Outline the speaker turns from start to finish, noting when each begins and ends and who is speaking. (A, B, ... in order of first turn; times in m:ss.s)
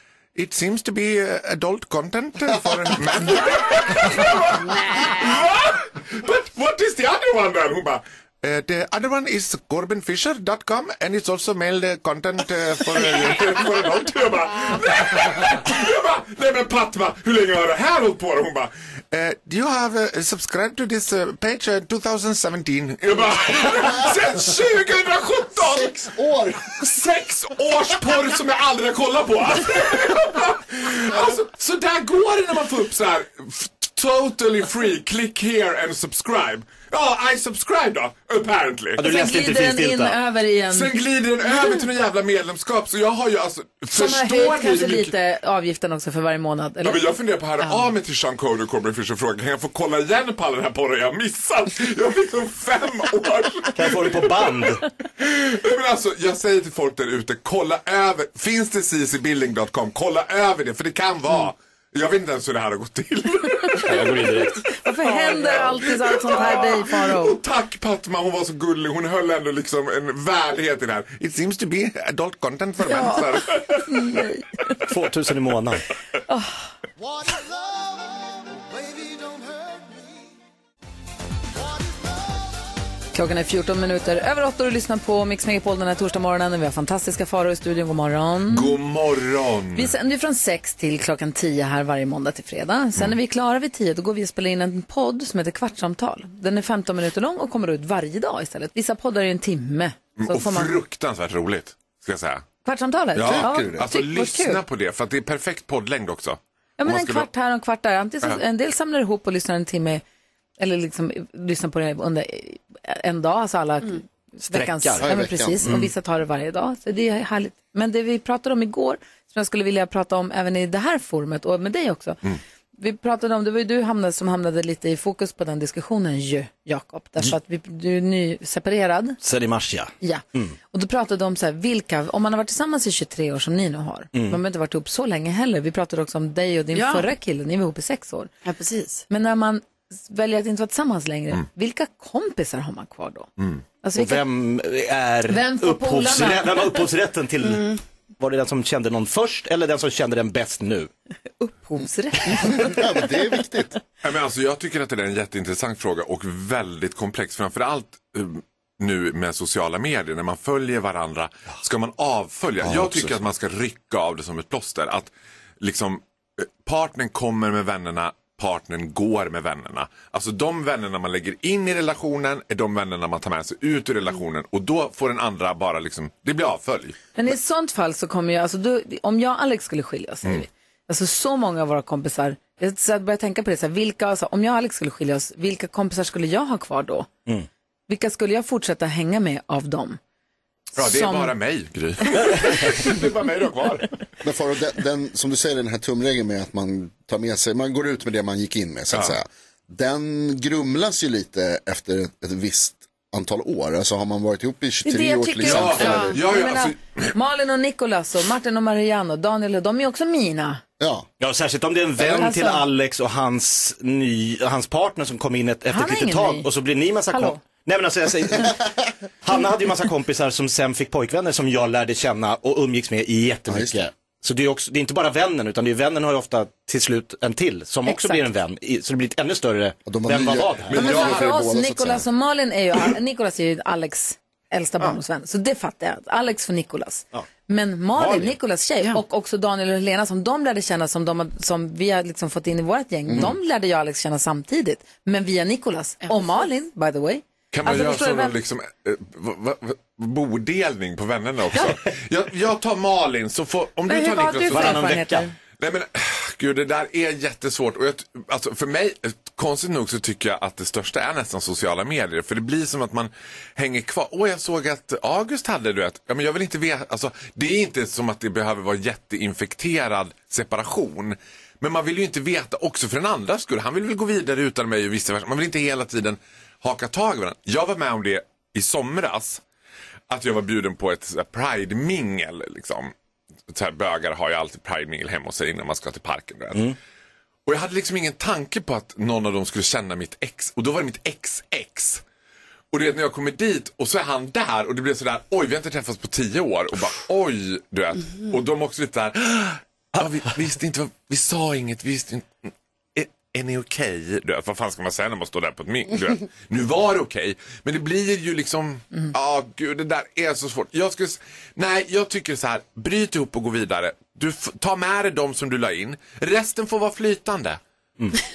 0:00.3-0:39.0 A
0:04.6-0:05.3 B
0:25.5-0:26.8 C
0:39.0-0:40.2 D
0:39.0-0:40.9 E
0:40.7-0:45.1 A
0:43.9-0:47.0 E
0:46.8-0:54.3 A
0:53.7-0:54.8 D
0:55.2-1:04.5 A
1:03.8-1:04.6 D
1:04.7-1:07.4 E
1:05.2-1:14.3 A
1:12.9-1:13.2 E
1:13.8-1:14.8 E
1:14.8-1:15.8 D
1:16.3-1:16.6 E
1:23.1-1:28.8 E
1:28.4-1:29.9 A
1:29.7-1:40.8 E
1:40.2-1:42.4 A
1:42.6-1:44.6 E
1:43.1-1:47.3 A
1:43.2-1:43.8 C
1:46.8-1:50.0 E
1:50.6-2:02.2 E
1:54.5-1:55.0 D
1:55.0-1:55.8 C
2:02.8-2:09.2 E
2:09.2-2:10.6 D
2:10.0-2:18.3 E
2:16.7-2:17.0 B
2:18.4-2:19.0 B
2:19.1-2:23.3 E
2:23.8-2:24.2 E
2:24.0-2:30.9 D
2:25.3-2:26.8 E
2:27.4-2:27.8 B
2:31.4-2:32.8 E
2:32.3-2:33.8 C
2:34.0-2:57.0 A
2:42.6-2:43.2 C
2:57.2-3:07.1 E
3:07.9-3:10.0 E
3:10.7-3:11.3 E
3:10.7-3:13.9 A
3:14.2-3:26.1 C
3:18.9-3:19.2 A
3:24.8-3:30.6 E
3:25.4-3:27.1 A
3:25.8-3:26.1 B
3:30.8-3:31.1 C
3:31.2-3:51.0 D
3:32.0-3:32.6 E
3:35.7-3:36.5 E
3:37.1-3:37.4 E
3:43.5-3:43.8 C
3:47.8-3:48.2 E
3:49.8-3:52.0 C
3:50.7-3:51.4 A
3:50.7-4:08.4 E
3:58.0-3:58.4 D
4:03.1-4:03.3 C
4:07.5-4:14.9 A
4:13.9-4:15.3 E
4:14.5-4:15.3 D
4:15.6-4:39.4 A
4:40.1-4:42.9 A
4:43.5-4:46.7 A
4:47.4-4:52.0 A
4:52.7-5:17.6 A